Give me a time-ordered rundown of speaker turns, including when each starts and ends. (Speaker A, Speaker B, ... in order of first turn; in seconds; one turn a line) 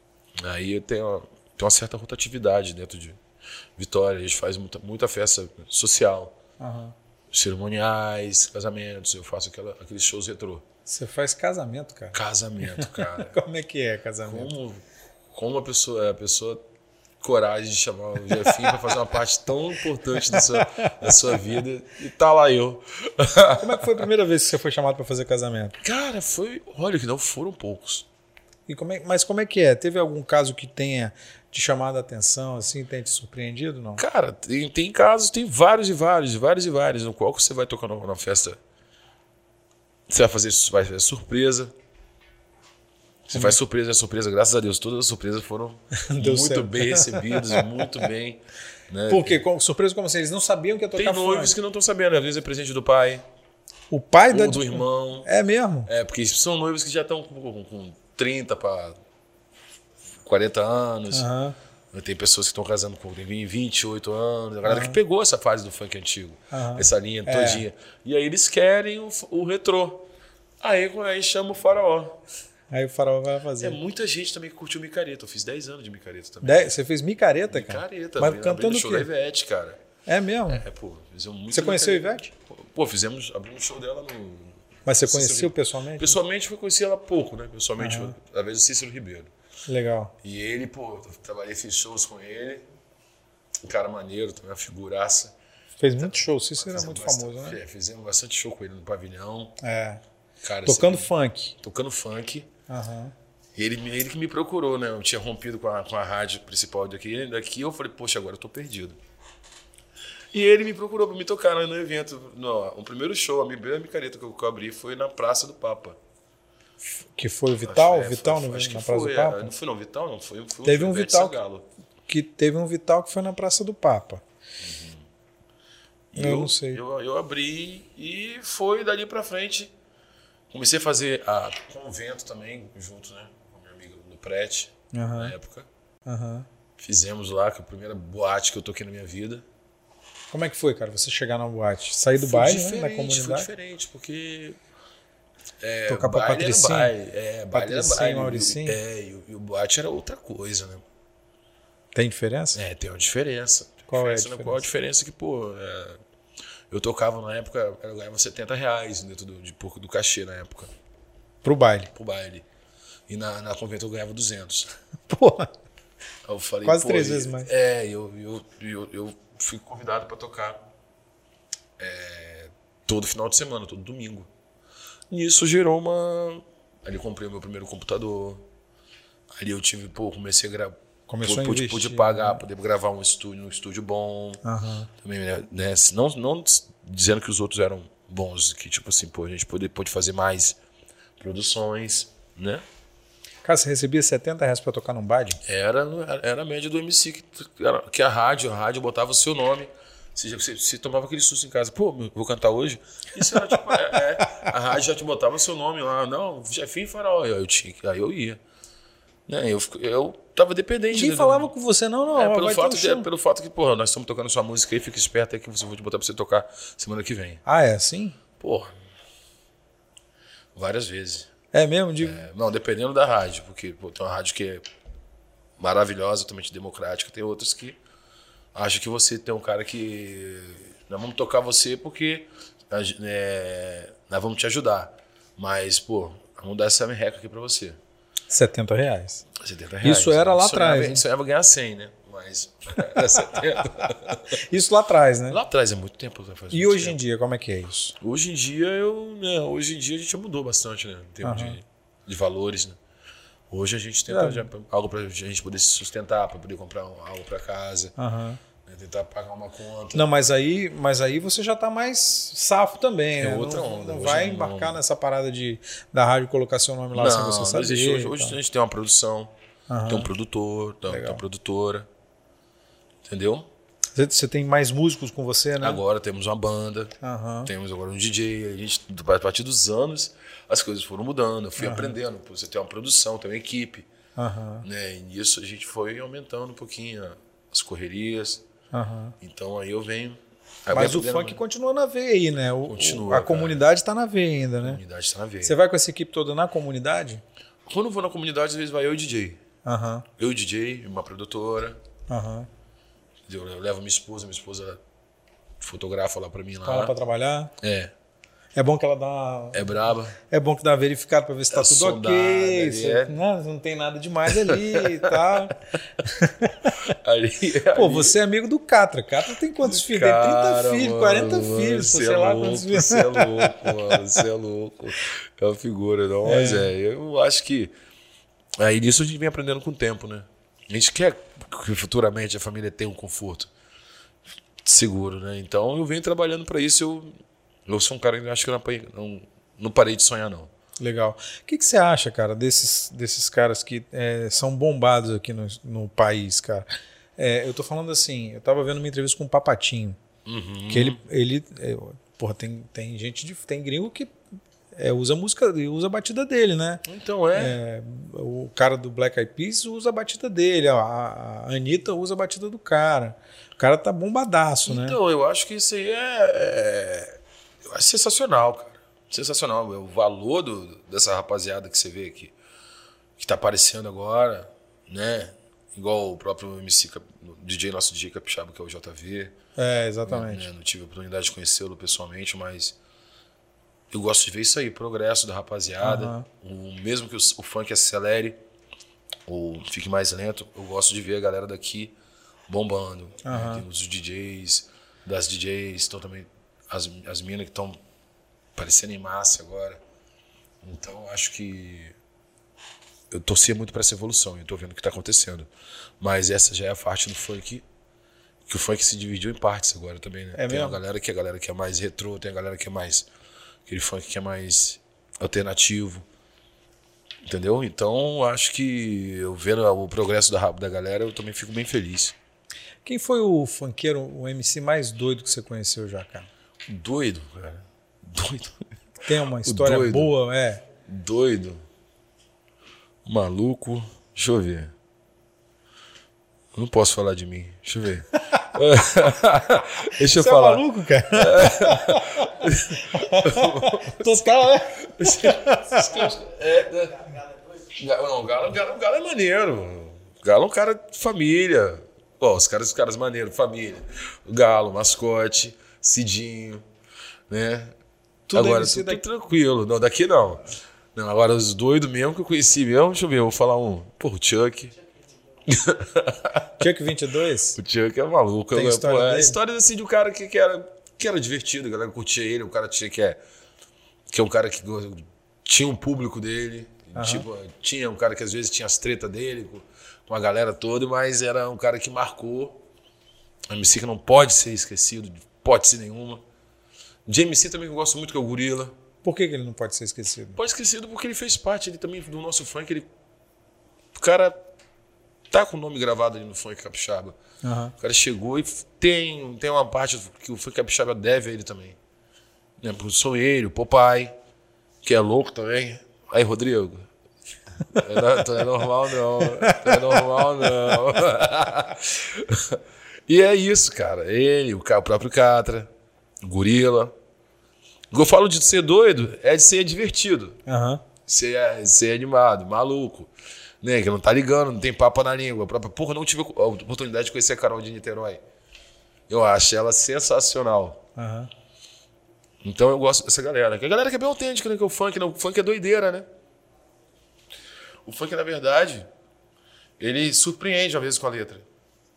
Speaker A: 0.4-3.2
Speaker A: 3.8-6.4
Speaker B: 6.6-6.9
Speaker A: 7.3-10.6
Speaker B: 10.9-14.5
Speaker A: 12.1-13.4
Speaker A: 14.2-16.6
Speaker A: 17.2-24.1
Speaker B: 20.1-21.3
Speaker B: 23.6-25.8
Speaker A: 25.8-28.1
Speaker B: 28.7-34.0
Speaker A: 34.0-38.6
Speaker A: 40.1-41.7
Speaker A: 43.3-49.4
Speaker B: 43.3-43.6
Speaker B: 46.0-48.0
Speaker B: 49.1-51.5
Speaker A: 50.9-53.2
Speaker B: 53.9-55.9
Speaker A: 54.3-55.3
Speaker A: 55.9-59.0
Speaker A: 60.2-61.3
Speaker B: 61.1-61.5
Speaker A: 61.9-70.1
Speaker B: 64.6-65.0
Speaker B: 66.5-67.6
Speaker A: 70.6-72.2
Speaker B: 72.7-73.8
Speaker A: 73.6-76.7
Speaker B: 76.4-79.1
Speaker A: 77.5-79.8
Speaker B: 80.1-80.6
Speaker A: 80.5-89.3
Speaker B: 81.5-82.3
Speaker B: 84.8-86.2
Speaker B: 87.8-88.1
Speaker B: 89.7-90.1
Speaker A: 90.2-92.6
Speaker A: 93.6-95.3
Speaker B: 95.8-97.6
Speaker A: 96.0-99.6
Speaker B: 99.6-100.0
Speaker A: 100.4-101.1
Speaker B: 100.6-101.5
Speaker A: 101.6-102.5
Speaker B: 102.7-103.1
Speaker A: 103.5-109.0
Speaker A: 110.3-116.0
Speaker B: 117.0-119.5
Speaker A: 117.6-121.7
Speaker B: 120.6-121.4
Speaker B: 122.1-124.2
Speaker A: 124.6-125.0
Speaker A: 126.1-129.7
Speaker B: 126.2-126.8
Speaker A: 130.5-135.7
Speaker B: 134.9-135.3
Speaker B: 136.1-136.5
Speaker A: 136.8-139.4
Speaker B: 140.3-143.5
Speaker A: 142.1-144.6
Speaker A: 145.6-150.8
Speaker B: 145.9-146.9
Speaker B: 147.5-148.8
Speaker B: 151.9-152.6
Speaker A: 152.5-156.0
Speaker B: 153.9-154.6
Speaker A: 156.7-160.7
Speaker B: 161.4-161.9
Speaker A: 161.9-162.4
Speaker A: 163.1-164.7
Speaker B: 165.1-165.5
Speaker A: 166.2-170.6
Speaker B: 166.6-167.5
Speaker A: 171.8-174.3
Speaker A: 175.1-178.4
Speaker A: 179.3-184.4
Speaker B: 181.1-182.4
Speaker B: 184.4-184.9
Speaker A: 185.0-190.6
Speaker A: 191.2-192.6
Speaker B: 193.4-195.4
Speaker A: 195.4-208.4
Speaker A: 209.3-211.5
Speaker B: 210.9-213.1
Speaker A: 212.1-217.4
Speaker B: 217.4-218.2
Speaker A: 218.4-218.7
Speaker A: 220.5-221.3
Speaker B: 221.5-222.2
Speaker A: 222.0-224.6
Speaker A: 225.6-227.8
Speaker A: 228.5-237.8
Speaker B: 238.3-239.2
Speaker A: 239.3-244.4
Speaker B: 239.8-241.0
Speaker B: 244.1-245.4
Speaker A: 245.3-247.0
Speaker B: 246.5-247.9
Speaker A: 248.0-252.8
Speaker B: 251.2-251.6
Speaker A: 253.5-257.9
Speaker B: 254.1-254.5
Speaker B: 258.0-258.4
Speaker A: 258.6-260.1
Speaker B: 259.9-268.4
Speaker A: 263.2-264.8
Speaker A: 266.9-269.3
Speaker B: 269.7-270.1
Speaker A: 269.9-271.9
Speaker B: 270.9-271.2
Speaker A: 273.0-273.5
Speaker B: 273.9-275.8
Speaker A: 275.6-276.9
Speaker B: 277.0-277.5
Speaker A: 277.4-283.9
Speaker B: 281.6-281.9
Speaker B: 284.2-284.6
Speaker A: 284.6-288.4
Speaker B: 288.7-289.1
Speaker A: 289.2-291.4
Speaker B: 290.7-294.8
Speaker A: 292.6-293.6
Speaker A: 294.6-295.6
Speaker B: 295.4-297.2
Speaker A: 297.6-299.4
Speaker B: 299.6-300.1
Speaker A: 300.2-301.8
Speaker B: 302.1-302.5
Speaker A: 303.2-304.8
Speaker A: 305.6-306.9
Speaker B: 306.6-307.5
Speaker A: 307.6-307.9
Speaker B: 308.6-316.8
Speaker A: 309.5-310.1
Speaker A: 311.5-313.1
Speaker A: 314.3-315.5
Speaker A: 316.7-318.2
Speaker B: 317.7-324.0
Speaker A: 319.6-327.7
Speaker B: 326.2-326.7
Speaker A: 328.6-333.5
Speaker A: 334.6-337.1
Speaker A: 337.7-340.5
Speaker B: 340.8-350.0
Speaker A: 350.2-351.0
Speaker B: 350.7-354.1
Speaker B: 354.8-365.0
Speaker A: 356.9-357.6
Speaker A: 364.6-372.3
Speaker A: 373.2-379.4
Speaker B: 379.6-380.5
Speaker A: 380.0-382.8
Speaker A: 383.9-388.4
Speaker B: 385.8-386.2
Speaker A: 389.3-391.9
Speaker A: 392.5-397.8
Speaker B: 393.2-393.6
Speaker A: 398.6-399.8
Speaker A: 400.6-401.9
Speaker A: 403.1-405.5
Speaker A: 406.0-407.6
Speaker A: 408.5-413.1
Speaker B: 410.3-410.8
Speaker A: 413.7-416.1
Speaker A: 417.2-422.1
Speaker B: 422.8-426.3
Speaker A: 426.7-428.6
Speaker B: 429.0-430.6
Speaker A: 429.4-430.1
Speaker A: 430.9-431.6
Speaker A: 433.0-434.7
Speaker A: 436.5-444.3
Speaker B: 440.0-446.1
Speaker A: 444.9-456.6
Speaker A: 457.3-457.7
Speaker B: 458.3-459.0
Speaker A: 458.3-464.8
Speaker A: 465.4-466.6
Speaker B: 466.6-467.6
Speaker A: 467.5-473.2
Speaker B: 468.5-469.4
Speaker A: 474.1-482.6
Speaker B: 476.9-477.2
Speaker A: 483.5-486.2
Speaker A: 487.1-488.8
Speaker B: 489.0-490.4
Speaker A: 490.4-492.9
Speaker A: 493.9-494.4
Speaker A: 495.3-497.1
Speaker B: 497.4-497.7
Speaker A: 497.8-501.8
Speaker A: 502.6-504.1
Speaker A: 504.8-506.9
Speaker A: 507.7-515.7
Speaker B: 509.2-510.0
Speaker A: 516.2-516.9
Speaker A: 517.9-520.4
Speaker B: 520.5-520.8
Speaker A: 521.0-528.2
Speaker A: 529.1-530.8
Speaker B: 531.0-531.3
Speaker A: 532.4-536.1
Speaker A: 537.8-538.8
Speaker A: 539.8-541.5